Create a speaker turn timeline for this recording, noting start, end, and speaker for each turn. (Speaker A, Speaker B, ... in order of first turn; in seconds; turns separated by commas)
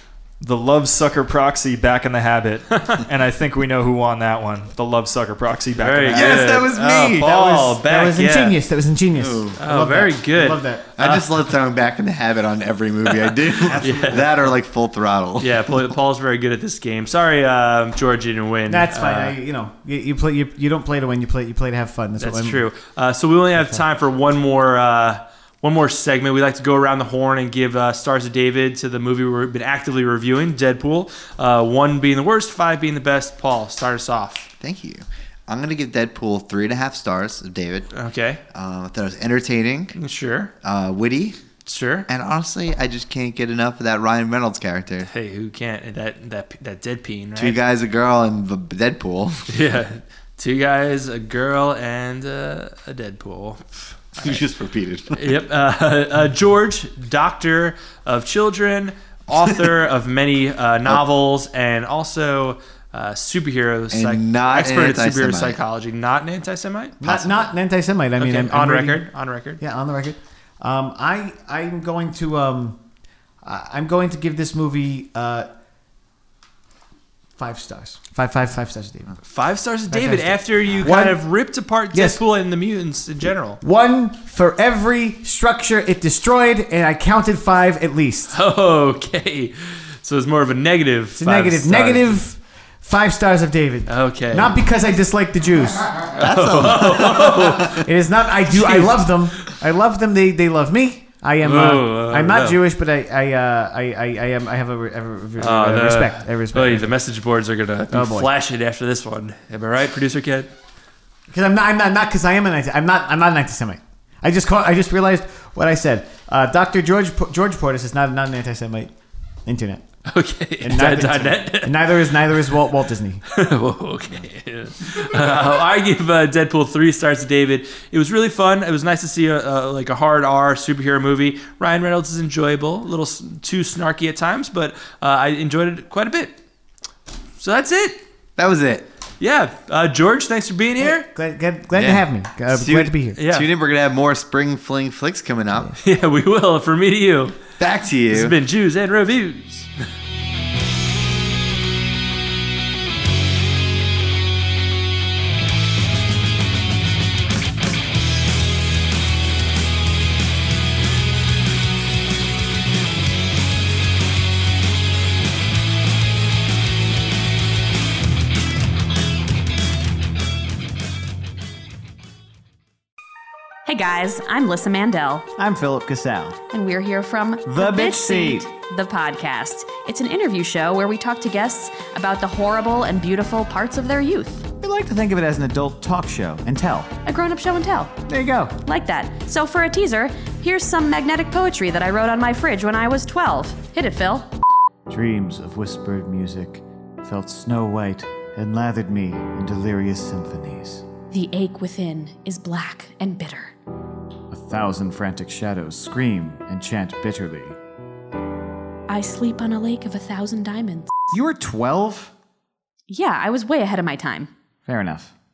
Speaker A: 0.4-6.7, Speaker B: 5.8-8.6, Speaker C: 6.1-7.3, Speaker D: 7.3-10.8, Speaker C: 9.1-9.6, Speaker B: 9.6-11.3, Speaker C: 11.0-15.9, Speaker B: 13.2-14.3, Speaker D: 13.6-14.3, Speaker B: 15.4-19.4, Speaker D: 18.7-22.6, Speaker B: 22.2-34.5, Speaker C: 34.6-37.9, Speaker B: 37.9-38.4, Speaker C: 38.5-40.0, Speaker B: 40.0-40.5, Speaker C: 40.6-41.4, Speaker B: 41.6-42.1, Speaker C: 42.1-45.1, Speaker B: 45.0-47.6, Speaker C: 47.4-49.5, Speaker B: 49.5-54.4, Speaker C: 54.2-55.3, Speaker B: 55.1-67.0, Speaker C: 63.9-65.6, Speaker D: 67.0-69.1, Speaker C: 67.0-67.5, Speaker B: 68.2-69.6, Speaker D: 69.6-72.8, Speaker D: 73.4-75.5, Speaker D: 77.4-79.2, Speaker B: 79.2-83.6, Speaker D: 79.9-81.2, Speaker D: 81.9-82.2, Speaker D: 83.6-88.3, Speaker B: 88.3-92.2, Speaker D: 91.2-96.2, Speaker B: 93.9-94.6, Speaker B: 96.2-97.8, Speaker C: 96.2-97.8, Speaker D: 97.6-106.9, Speaker B: 98.5-99.1, Speaker B: 101.4-102.6, Speaker B: 105.4-110.5, Speaker D: 107.9-108.3, Speaker D: 111.3-118.9, Speaker D: 119.5-119.8, Speaker B: 120.1-122.0, Speaker D: 120.6-123.2, Speaker B: 123.3-136.3, Speaker B: 137.4-138.0, Speaker C: 138.4-138.8, Speaker B: 139.2-141.1, Speaker D: 140.8-143.2, Speaker C: 141.7-145.8, Speaker B: 143.2-143.5, Speaker B: 145.8-147.3, Speaker C: 147.6-148.4, Speaker B: 148.1-149.7, Speaker E: 173.7-175.3, Speaker D: 175.4-176.4, Speaker E: 176.5-184.4, Speaker D: 177.4-178.4, Speaker D: 184.6-186.9, Speaker E: 187.1-187.9, Speaker D: 188.1-188.5, Speaker E: 188.6-194.3, Speaker D: 194.9-200.8, Speaker E: 201.1-203.5, Speaker D: 204.3-207.6, Speaker E: 208.9-211.1, Speaker D: 211.1-212.1, Speaker E: 212.9-214.3, Speaker D: 214.7-215.1